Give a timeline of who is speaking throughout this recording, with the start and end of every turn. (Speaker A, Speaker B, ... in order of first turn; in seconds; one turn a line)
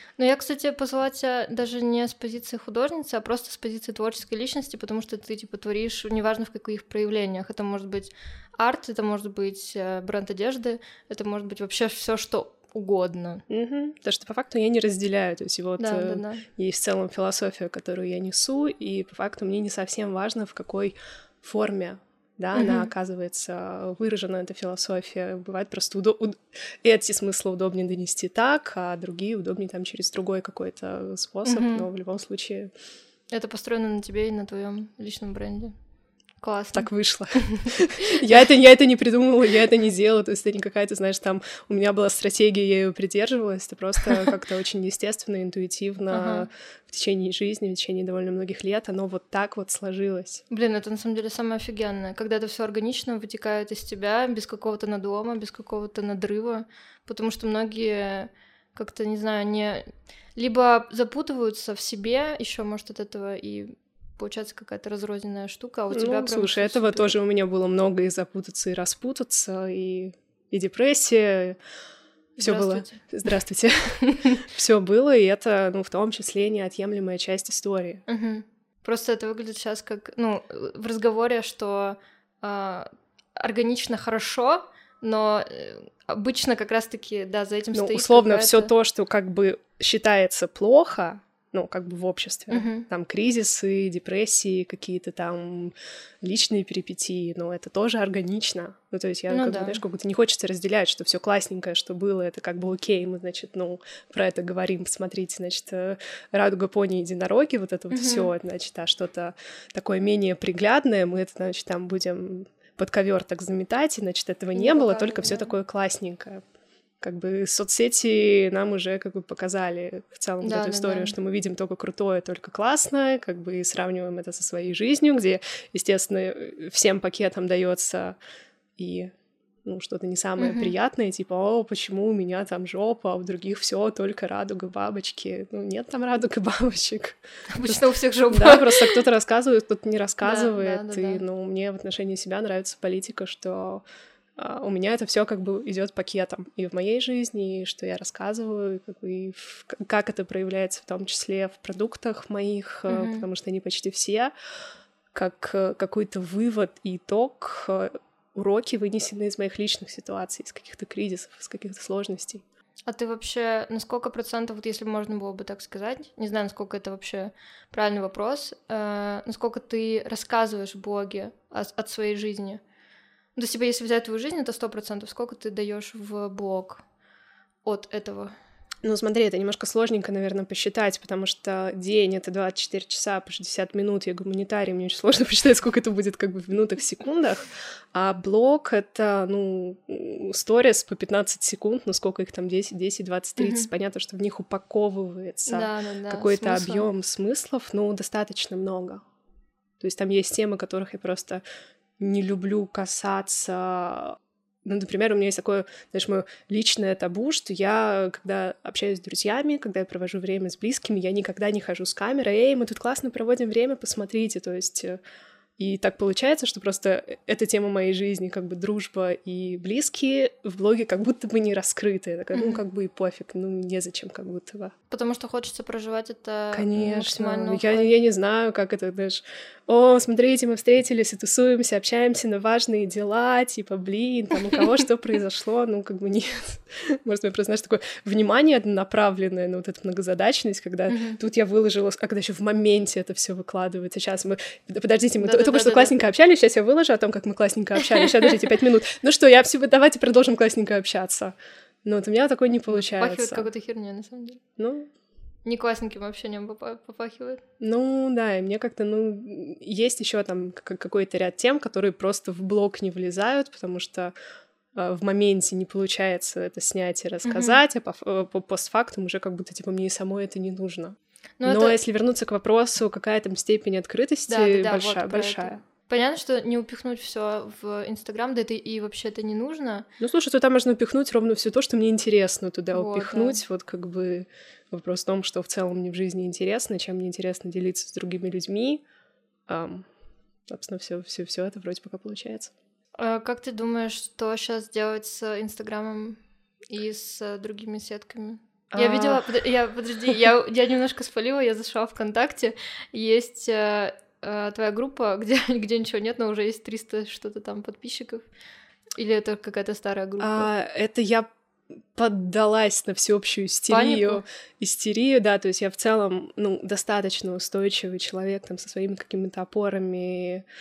Speaker A: 0.2-13.4
Speaker B: 13.5-32.7
Speaker A: 15.8-16.4
Speaker A: 22.5-22.9
Speaker A: 31.4-31.9
Speaker A: 33.3-35.7
Speaker A: 36.4-37.7
Speaker B: 36.7-50.4
Speaker A: 46.1-46.5
Speaker A: 50.5-67.2
Speaker B: 65.9-71.6
Speaker A: 72.4-73.0
Speaker B: 72.4-78.0
Speaker A: 74.0-74.4
Speaker A: 78.1-88.7
Speaker B: 87.7-116.4
Speaker A: 92.5-92.8
Speaker A: 99.3-99.8
Speaker A: 107.9-108.3
Speaker A: 114.5-115.5
Speaker B: 117.0-128.2
Speaker A: 120.4-121.1
Speaker B: 128.8-129.1
Speaker B: 129.6-137.8
Speaker A: 130.4-130.7
Speaker A: 137.5-139.0
Speaker B: 138.3-143.8
Speaker A: 140.2-141.2
Speaker B: 144.3-154.3
Speaker A: 152.9-153.2
Speaker B: 155.1-162.4
Speaker A: 162.9-172.6
Speaker A: 173.3-176.8
Speaker A: 177.6-178.3
Speaker B: 178.8-199.0
Speaker A: 193.4-193.7
Speaker A: 195.5-196.9
Speaker B: 199.8-201.4
Speaker B: 202.0-215.0
Speaker B: 215.6-224.7
Speaker A: 222.3-222.6
Speaker A: 224.9-227.9
Speaker B: 226.5-253.5
Speaker A: 240.9-241.2
Speaker A: 245.2-245.9
Speaker A: 252.7-254.4
Speaker B: 254.6-254.9
Speaker A: 255.4-257.4
Speaker B: 257.6-264.1
Speaker B: 264.7-275.6
Speaker A: 267.2-267.6
Speaker A: 271.4-271.8
Speaker A: 274.3-279.9
Speaker B: 280.0-288.8
Speaker A: 282.7-283.4
Speaker B: 289.5-289.9
Speaker B: 290.5-292.5
Speaker A: 292.9-308.2
Speaker B: 298.7-299.4
Speaker A: 308.9-310.5
Speaker B: 310.2-320.4
Speaker A: 313.7-314.2